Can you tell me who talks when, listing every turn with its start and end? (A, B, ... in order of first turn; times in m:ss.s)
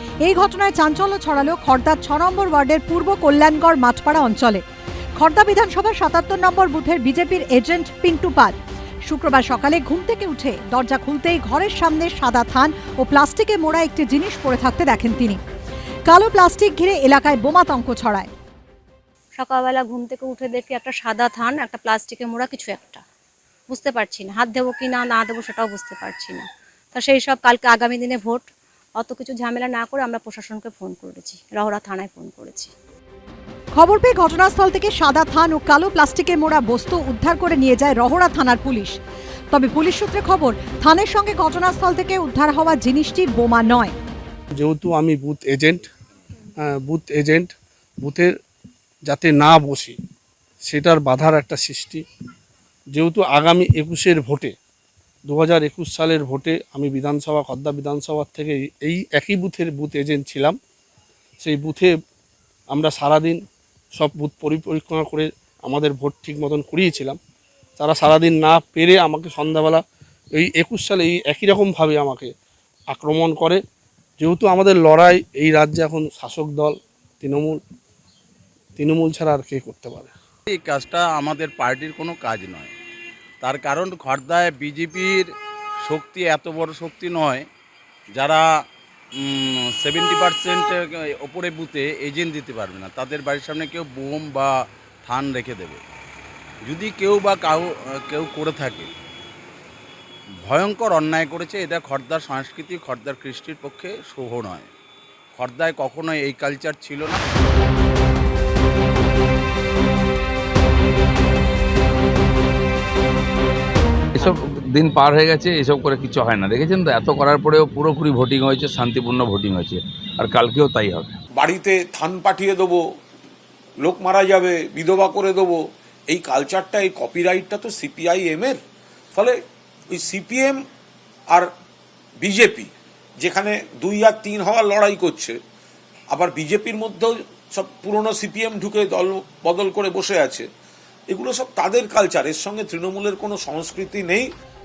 0:00.2-0:04.6 A
0:05.2-0:08.6 A
0:09.1-0:15.4 A
0:16.1-0:18.3 A
0:19.4-0:23.0 B
0:23.7-0:28.5 B
0:29.0-0:32.7 B
0:33.8-0:39.0 A
0:39.5-0:43.9 A
0:44.6-0:45.9 C
0:46.6-0:48.3 C
0:49.1-0:50.0 C
0:50.7-0:52.0 C
0:52.9-0:54.5 C
0:55.3-1:00.6 C
1:01.4-1:01.9 C
1:02.7-1:03.4 C
1:04.0-1:07.2 C
1:07.8-1:09.8 C
1:10.4-1:12.3 C
1:12.9-1:13.6 C
1:14.2-1:17.6 C
1:18.8-1:20.1 C
1:20.5-1:22.7 D
1:23.4-1:25.3 D
1:25.8-1:27.5 D
1:28.2-1:28.5 D
1:29.2-1:35.8 D
1:36.6-1:38.9 D
1:40.5-1:44.7 D
1:45.4-1:47.2 D
1:54.2-2:01.2 E
2:01.4-2:02.8 F
2:03.8-2:08.6 F
2:09.1-2:09.4 F
2:09.9-2:10.6 F
2:12.2-2:12.7 F
2:13.2-2:15.4 F
2:16.1-2:20.5 F
2:21.1-2:24.3 F